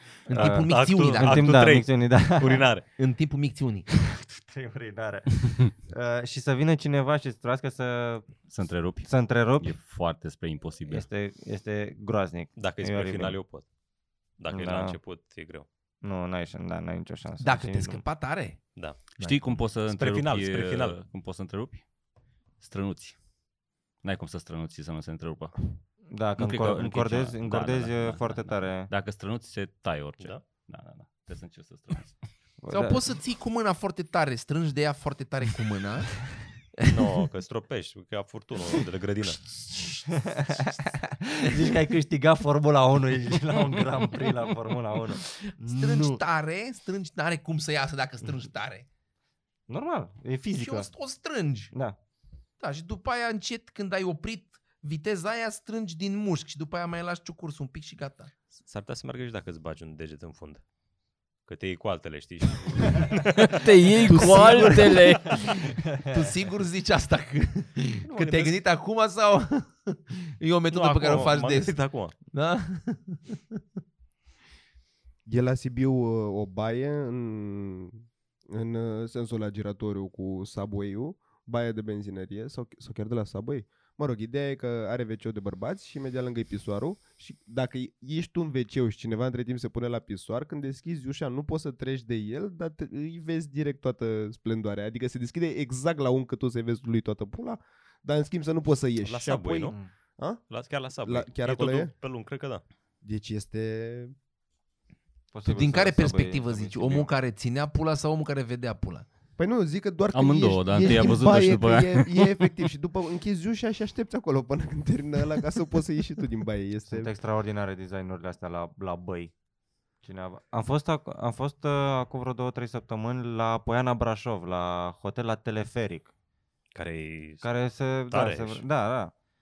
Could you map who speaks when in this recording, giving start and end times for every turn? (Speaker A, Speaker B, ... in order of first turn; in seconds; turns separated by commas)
Speaker A: 0.3-1.6, Speaker B: 0.3-2.9, Speaker C: 0.4-2.7, Speaker A: 3.0-3.9, Speaker C: 4.2-8.5, Speaker D: 8.5-11.1, Speaker C: 9.0-9.8, Speaker C: 10.9-13.4, Speaker B: 12.6-13.7, Speaker B: 14.4-15.7, Speaker C: 14.5-15.0, Speaker C: 16.0-18.0, Speaker A: 17.4-19.6, Speaker B: 18.8-19.1, Speaker D: 19.2-21.9, Speaker B: 19.9-21.0, Speaker D: 22.6-23.2, Speaker D: 24.0-25.8, Speaker C: 26.1-28.9, Speaker D: 26.4-32.2, Speaker B: 30.2-30.4, Speaker C: 32.6-33.1, Speaker A: 32.7-36.9, Speaker B: 36.9-39.5, Speaker A: 39.7-40.0, Speaker C: 40.1-46.2, Speaker A: 45.2-48.9, Speaker C: 49.7-50.9, Speaker A: 50.6-51.7, Speaker A: 52.6-58.3, Speaker B: 58.6-60.6, Speaker B: 61.5-64.6, Speaker D: 63.5-65.4, Speaker A: 64.0-73.6, Speaker B: 68.1-68.6, Speaker B: 70.7-72.2, Speaker E: 75.3-100.4, Speaker B: 99.0-99.8, Speaker B: 100.5-102.6, Speaker E: 101.0-101.9, Speaker E: 103.0-104.2, Speaker C: 105.3-107.1, Speaker A: 105.5-109.1, Speaker E: 109.4-117.1, Speaker D: 110.1-112.5, Speaker C: 116.9-119.3, Speaker C: 120.0-126.1, Speaker B: 126.8-127.5, Speaker C: 127.4-129.1, Speaker B: 128.1-128.6